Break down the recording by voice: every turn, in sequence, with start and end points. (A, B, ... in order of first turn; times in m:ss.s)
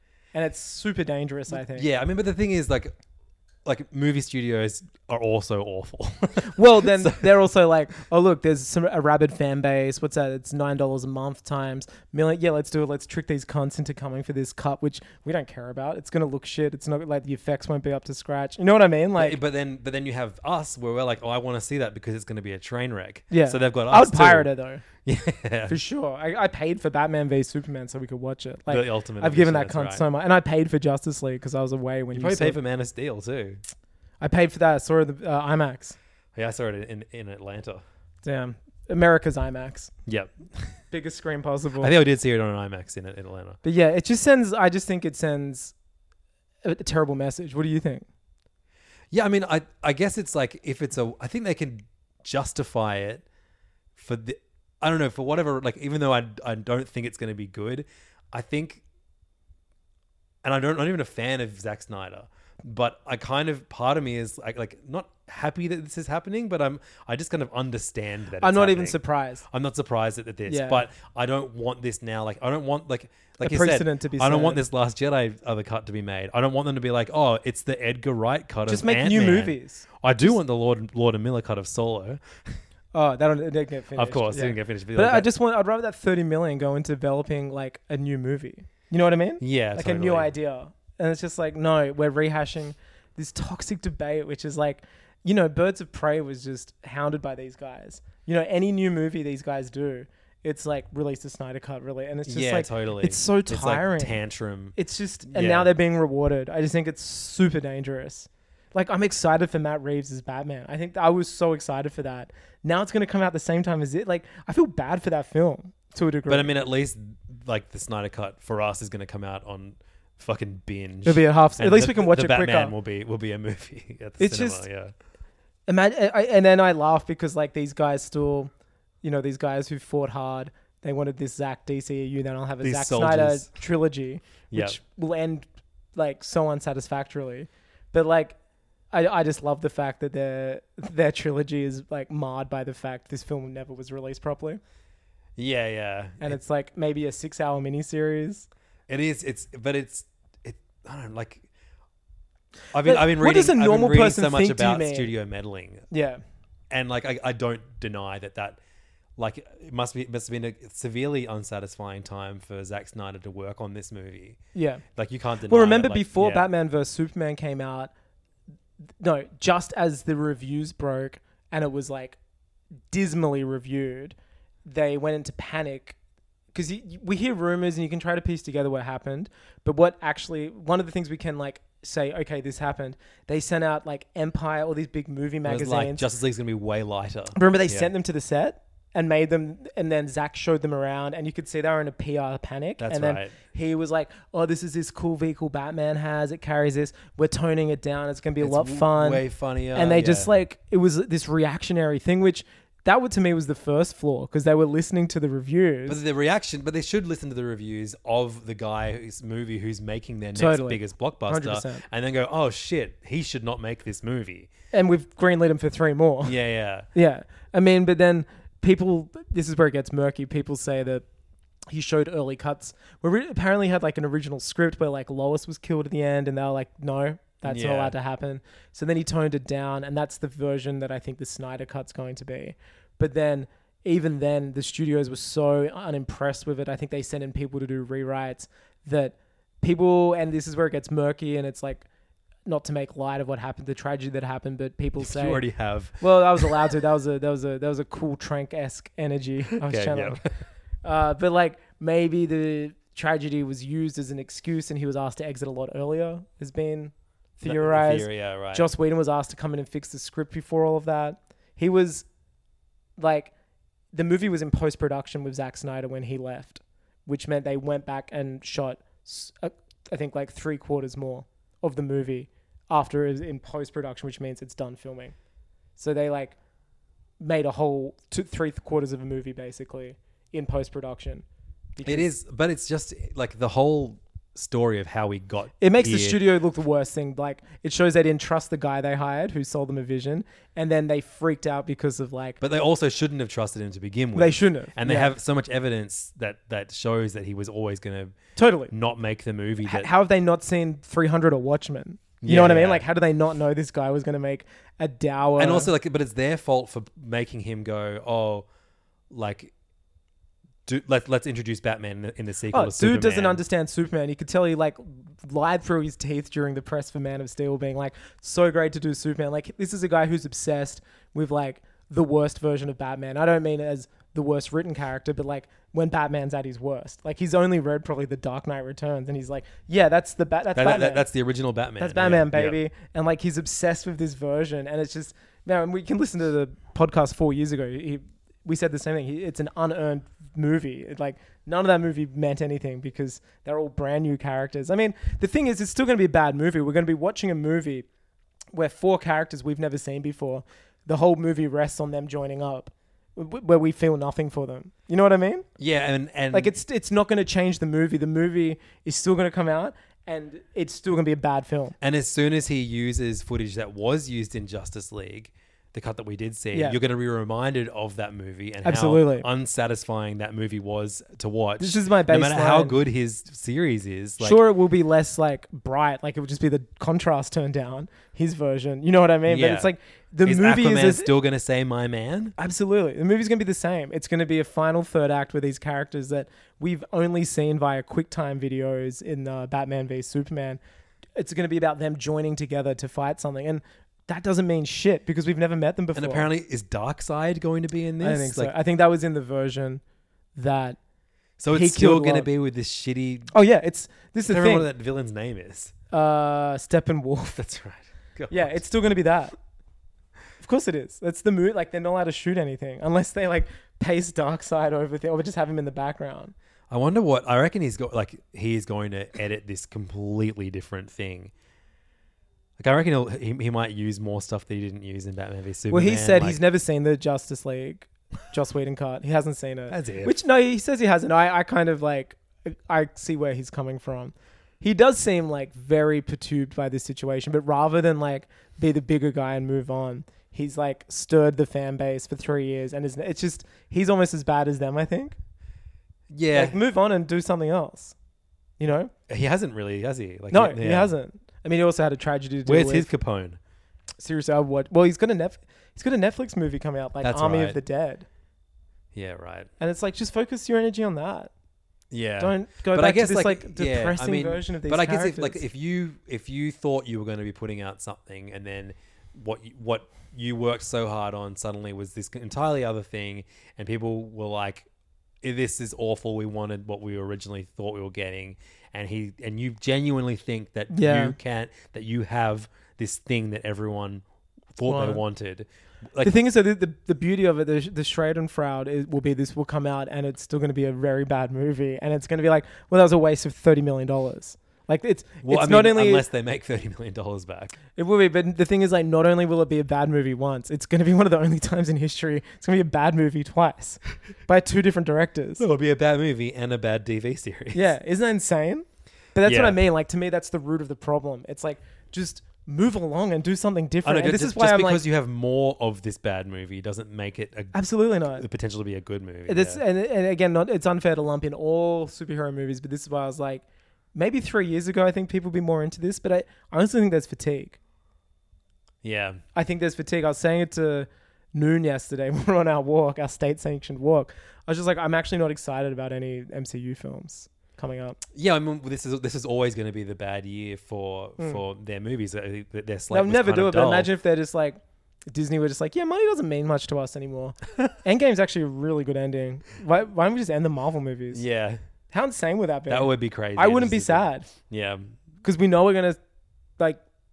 0:00.3-0:01.9 A
0:01.5-0:02.9 B
0:03.6-0:07.4 B
0:06.5-0:19.4 A
0:19.2-0:25.8 B
0:23.3-0:24.8 A
0:25.7-0:32.6 A
0:28.7-0:30.0 B
0:32.1-0:33.6 B
0:34.2-0:36.0 A
0:36.4-0:37.8 B
0:38.2-0:39.9 A
0:40.1-0:40.7 B
0:40.9-0:41.9 A
0:41.8-0:43.6 B
0:43.6-0:45.7 A
0:46.6-0:48.0 A
0:49.1-0:53.2 B
0:54.0-0:58.8 B
1:00.4-1:22.6 B
1:08.4-1:09.4 A
1:10.5-1:10.8 A
1:13.4-1:14.6 A
1:18.7-1:19.8 A
1:22.9-1:44.2 A
1:24.0-1:25.3 B
1:29.4-1:30.3 B
1:42.3-1:45.7 B
1:44.8-1:56.5 A
1:56.3-2:04.9 B
2:01.0-2:02.7 A
2:04.2-2:04.6 A
2:05.7-2:08.5 A
2:09.0-2:18.4 A
2:12.6-2:13.5 B
2:14.5-2:14.8 B
2:18.9-2:24.6 A
2:25.4-2:26.4 B
2:26.2-2:28.5 A
2:28.9-2:31.4 B
2:32.7-2:35.9 B
2:32.8-2:35.1 A
2:35.9-2:36.2 A
2:36.7-2:38.6 B
2:39.2-2:44.4 B
2:44.5-2:44.8 A
2:44.9-2:46.5 B
2:45.5-2:47.9 A
2:49.0-2:52.2 A
2:52.9-2:54.1 A
2:54.6-2:56.0 A
2:56.5-3:06.0 A
3:05.4-3:07.9 B
3:07.3-3:19.2 A
3:12.8-3:13.4 B
3:18.4-3:20.3 B
3:19.7-3:26.0 A
3:25.9-3:34.5 B
3:30.3-3:31.8 A
3:34.7-3:36.3 A
3:36.2-3:36.9 B
3:36.9-3:41.0 A
3:41.7-4:01.8 A
3:47.4-3:47.9 B
4:02.4-4:05.4 A
4:05.0-4:06.7 B
4:06.0-4:10.2 A
4:09.6-4:10.3 B
4:10.8-4:22.0 A
4:17.4-4:18.7 B
4:23.0-4:23.3 A
4:23.9-4:35.1 A
4:35.8-4:36.4 A
4:37.2-4:41.2 A
4:41.8-4:42.1 A
4:41.8-4:46.2 B
4:45.6-4:52.4 A
4:52.4-4:58.1 B
4:54.1-4:55.1 A
4:58.4-4:58.7 A
4:58.7-4:59.9 B
4:59.6-5:05.7 A
5:02.2-5:02.8 B
5:05.4-5:08.4 B
5:09.1-5:09.5 B
5:10.6-5:13.4 B
5:12.5-5:31.0 A
5:30.5-5:32.6 B
5:31.8-5:47.8 A
5:48.5-5:55.4 A
5:55.6-5:56.5 B
5:56.3-6:01.8 A
6:01.8-6:14.4 B
6:08.6-6:09.3 A
6:11.6-6:12.8 A
6:14.2-6:21.1 A
6:19.2-6:19.7 B
6:20.2-6:22.3 B
6:22.4-6:30.6 A
6:31.2-6:36.3 A
6:35.9-6:38.5 B
6:38.0-6:39.8 A
6:40.3-6:40.8 A
6:41.4-6:43.3 B
6:41.5-6:42.3 A
6:43.3-6:44.7 A
6:44.3-6:45.7 B
6:45.9-6:47.4 A
6:47.4-6:48.6 B
6:48.3-6:49.3 A
6:50.4-6:56.3 A
6:56.7-7:01.3 B
7:02.6-7:06.4 B
7:05.7-7:25.2 A
7:09.7-7:10.1 B
7:26.1-7:26.6 B
7:26.3-7:27.9 A
7:28.6-7:28.9 A
7:29.1-7:30.9 B
7:30.3-7:32.9 A
7:32.4-7:33.4 B
7:34.0-7:38.1 A
7:37.0-7:37.6 B
7:38.9-7:39.5 B
7:39.6-7:41.3 A
7:41.9-7:54.7 B
7:42.2-7:45.4 A
7:55.2-8:04.0 B
8:00.7-8:01.1 A
8:04.6-8:06.1 B
8:04.6-8:05.0 A
8:06.0-8:16.0 A
8:15.2-8:17.6 B
8:17.8-8:25.4 A
8:25.4-8:27.7 B
8:27.5-8:34.8 A
8:29.2-8:29.6 B
8:33.8-8:39.6 B
8:37.5-8:38.2 A
8:39.3-8:43.4 A
8:43.9-8:47.6 A
8:48.8-8:49.2 B
8:49.3-8:58.0 A
8:58.1-9:03.9 B
9:02.9-9:11.2 A
9:11.1-9:11.6 B
9:11.9-9:14.3 A
9:12.7-9:14.9 B
9:15.2-9:16.0 A